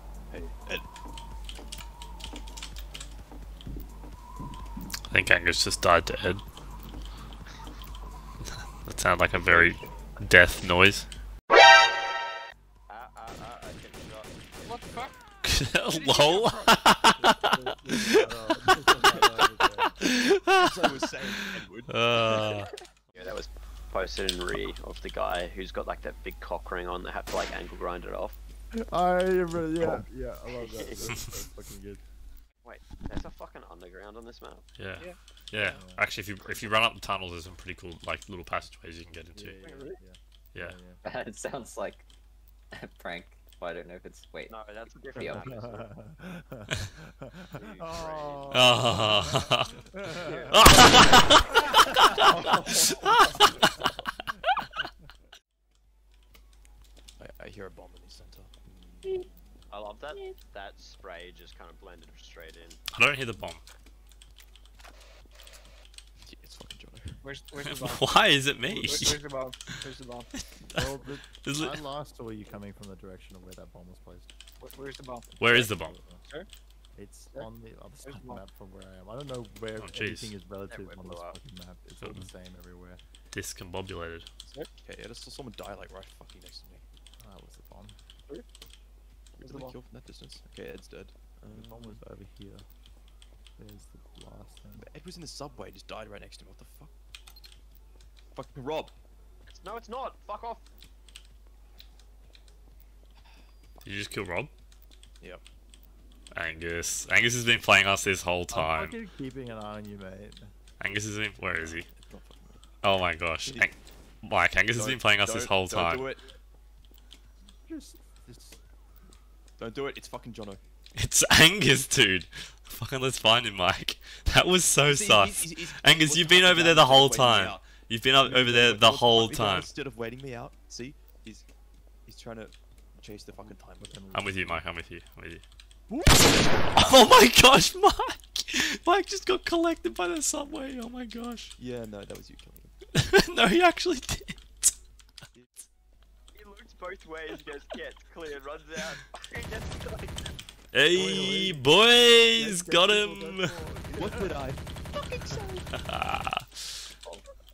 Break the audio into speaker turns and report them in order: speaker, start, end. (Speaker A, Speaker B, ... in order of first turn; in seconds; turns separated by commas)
Speaker A: 0.3-0.9, Speaker B: 5.1-6.4, Speaker B: 8.8-11.1, Speaker C: 9.3-9.9, Speaker C: 12.9-15.1, Speaker D: 14.7-15.2, Speaker B: 15.4-18.3, Speaker D: 15.9-16.6, Speaker D: 17.7-18.1, Speaker E: 18.1-20.0, Speaker A: 19.0-19.4, Speaker B: 20.0-22.7, Speaker A: 20.5-22.6, Speaker C: 23.1-28.4, Speaker E: 28.8-32.0, Speaker C: 30.6-31.1, Speaker C: 32.6-34.7, Speaker B: 34.8-39.6, Speaker E: 35.6-36.1, Speaker E: 39.4-41.0, Speaker D: 39.6-40.0, Speaker F: 41.0-42.0, Speaker F: 42.7-44.5, Speaker C: 44.5-45.9, Speaker E: 45.1-53.5, Speaker C: 47.9-48.8, Speaker B: 48.5-49.8, Speaker D: 50.4-51.0, Speaker B: 50.5-53.8, Speaker C: 50.9-51.3, Speaker A: 57.2-58.6, Speaker C: 59.7-62.8, Speaker B: 62.9-63.6, Speaker A: 66.2-67.2, Speaker D: 67.2-68.1, Speaker B: 67.6-69.2, Speaker D: 68.7-70.3, Speaker E: 70.7-74.3, Speaker B: 71.4-71.8, Speaker D: 74.6-75.7, Speaker B: 75.4-76.0, Speaker E: 75.4-76.2, Speaker E: 77.0-83.0, Speaker D: 78.0-78.4, Speaker B: 79.8-80.4, Speaker C: 80.7-81.4, Speaker B: 82.0-82.3, Speaker B: 83.3-84.3, Speaker A: 84.8-86.8, Speaker E: 87.2-88.0, Speaker A: 89.4-92.0, Speaker D: 89.4-89.8, Speaker E: 91.5-92.7, Speaker E: 93.6-94.9, Speaker A: 94.8-96.9, Speaker A: 98.3-99.0, Speaker C: 99.5-100.7, Speaker B: 103.8-104.5, Speaker B: 106.3-109.0, Speaker E: 108.5-110.5, Speaker B: 110.8-111.9, Speaker A: 111.5-112.6, Speaker B: 112.8-116.1, Speaker A: 113.5-113.7, Speaker A: 114.7-116.3, Speaker E: 117.7-118.6, Speaker A: 119.6-120.6, Speaker B: 121.0-129.7, Speaker A: 124.9-131.5, Speaker A: 132.1-134.1, Speaker E: 133.3-134.6, Speaker B: 134.1-135.4, Speaker A: 135.9-136.3, Speaker B: 136.7-141.5, Speaker A: 141.6-142.8, Speaker B: 143.0-144.7, Speaker A: 145.3-145.6, Speaker C: 146.3-150.4, Speaker B: 150.7-153.5, Speaker E: 150.9-151.8, Speaker E: 152.3-154.4, Speaker A: 154.0-154.6, Speaker B: 155.7-156.8